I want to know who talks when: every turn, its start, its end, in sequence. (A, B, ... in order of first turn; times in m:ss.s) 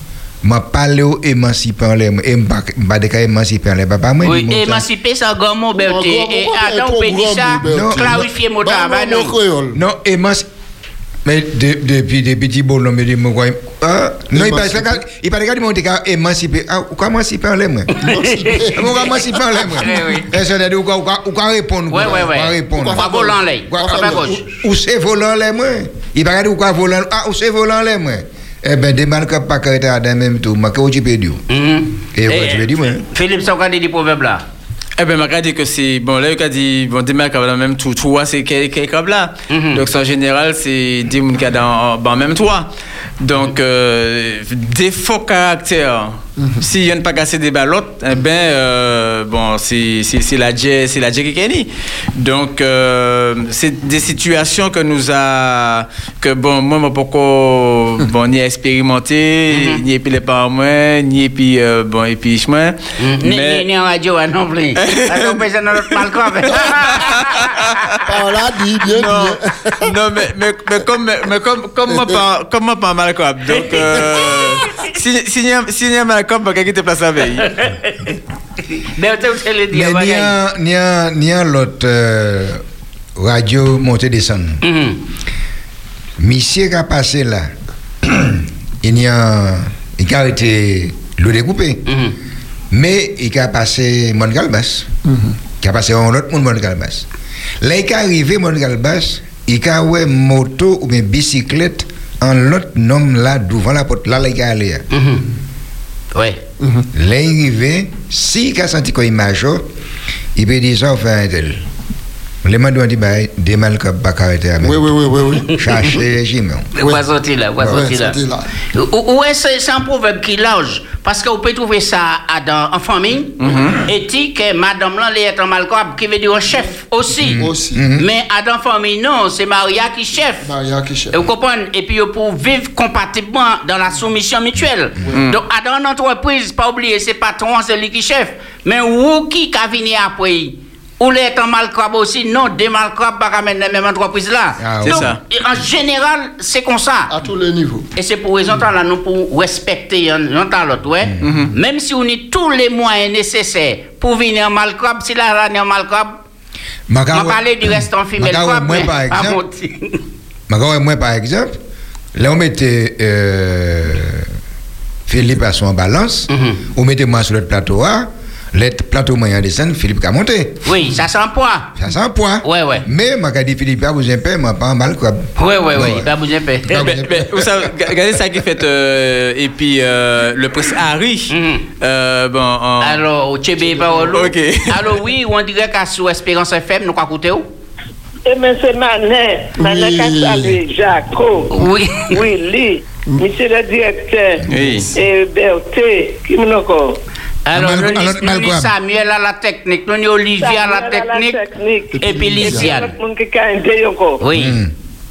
0:00.4-0:04.9 A
0:04.2-0:09.3 B
0:05.7-0:09.8 C
0:07.6-0:08.2 A
0:09.7-0:10.5 A
0:11.2-0:17.9 A
0:14.4-0:15.0 C
0:18.0-0:18.7 B
0:18.0-0:19.0 C
0:18.7-0:23.1 A
0:19.8-0:20.3 B
0:21.9-0:24.4 B
0:22.8-0:24.4 C
0:23.7-0:31.4 A
0:31.5-0:34.4 B
0:32.2-0:33.0 A
0:35.0-0:42.7 D
0:39.5-0:39.8 B
0:43.2-1:03.7 D
0:59.5-0:59.8 B
1:03.0-1:07.6 B
1:04.8-1:05.4 D
1:08.0-1:09.8 C
1:09.0-1:17.5 D
1:11.9-1:12.2 C
1:19.0-1:20.3 B
1:19.7-1:22.6 A
1:23.2-1:24.6 A
1:24.6-1:25.0 B
1:26.2-1:27.5 A
1:28.0-1:31.8 A
1:31.9-1:32.2 B
1:32.7-1:34.9 A
1:35.1-1:35.4 C
1:35.6-1:37.1 A
1:37.6-1:44.8 A
1:44.9-1:45.2 B
1:46.2-1:46.4 B
1:46.6-1:46.9 C
1:46.9-1:49.7 A
1:50.4-1:51.6 A
1:52.4-1:54.9 A
1:54.6-1:55.5 C
1:55.6-1:56.7 A
1:56.8-1:58.2 B
1:57.6-1:58.5 C
1:58.7-2:07.4 B
2:03.4-2:03.8 D
2:07.2-2:08.0 A
2:07.4-2:07.8 C
2:08.0-2:10.5 B
2:10.4-2:11.2 C
2:11.1-2:27.1 B
2:15.1-2:15.4 D
2:24.6-2:25.1 A
2:24.9-2:25.2 D
2:27.1-2:27.9 C
2:28.0-2:36.2 B
2:31.0-2:31.3 A
2:31.2-2:31.5 D
2:36.9-2:39.4 A
2:37.1-2:40.0 B
2:40.5-2:41.6 A
2:42.2-2:44.3 A
2:45.1-2:50.8 A
2:46.3-2:46.6 B
2:50.6-2:51.7 B
2:51.8-2:56.1 A
2:52.4-2:52.8 B
2:55.4-2:56.8 B
2:56.7-2:57.5 A
2:56.7-3:03.0 D
3:01.3-3:01.6 B
3:02.8-3:07.5 B
3:04.1-3:05.0 D
3:08.2-3:11.5 E
3:09.6-3:10.6 C
3:11.5-3:12.2 B
3:12.1-3:17.0 E
3:14.5-3:14.9 D
3:17.5-3:21.4 B
3:17.5-3:18.7 A
3:20.4-3:24.2 E
3:22.0-3:22.7 C
3:22.0-3:22.9 B
3:24.2-3:24.6 B
3:24.3-3:24.7 A